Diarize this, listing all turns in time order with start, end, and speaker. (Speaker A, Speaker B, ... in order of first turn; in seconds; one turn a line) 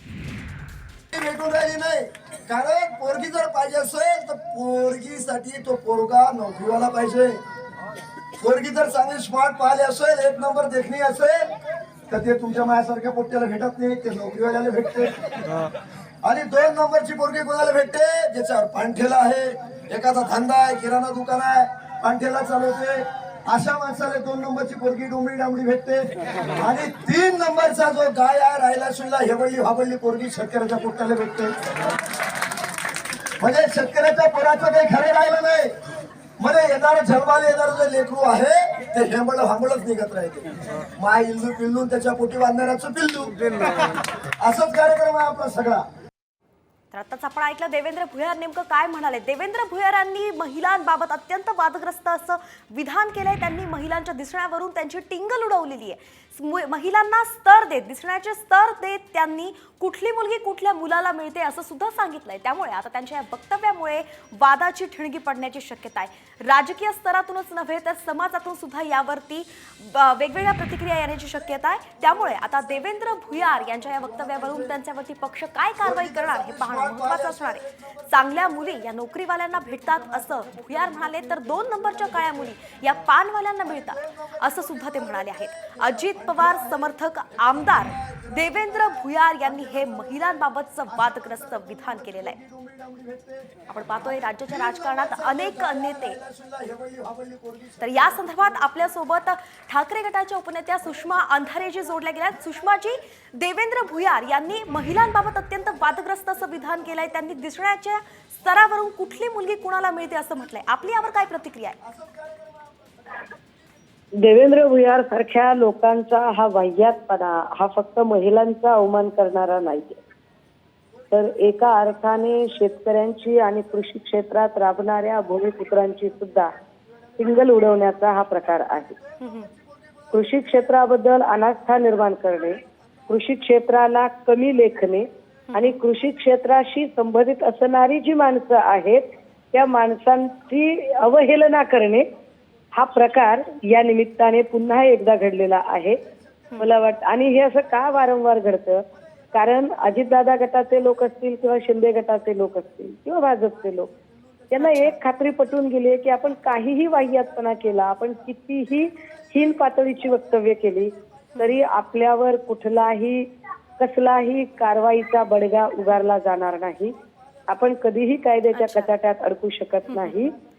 Speaker A: 1.1-7.4
Speaker A: 8.3-11.5
Speaker A: 12.1-15.2
Speaker A: 16.2-31.6
Speaker A: 33.4-35.8
Speaker A: 36.4-43.4
Speaker A: 44.4-45.9
Speaker B: 46.9-92.4
Speaker A: 73.7-74.8
Speaker A: 75.8-78.8
Speaker A: 79.7-82.6
Speaker A: 83.7-98.7
Speaker B: 93.7-96.2
Speaker B: 97.8-111.8
Speaker A: 111.8-112.7
Speaker C: 114.2-120.0
Speaker C: 121.1-126.5
Speaker C: 127.2-128.9
Speaker B: 129.2-129.5
Speaker C: 130.1-132.6
Speaker C: 133.1-142.0
Speaker B: 135.5-135.8
Speaker C: 142.8-146.0
Speaker C: 146.6-148.8
Speaker C: 149.3-153.9
Speaker C: 154.5-163.2
Speaker B: 154.6-154.9
Speaker C: 163.8-166.9
Speaker C: 167.5-170.3
Speaker B: 168.5-168.9
Speaker B: 169.9-170.1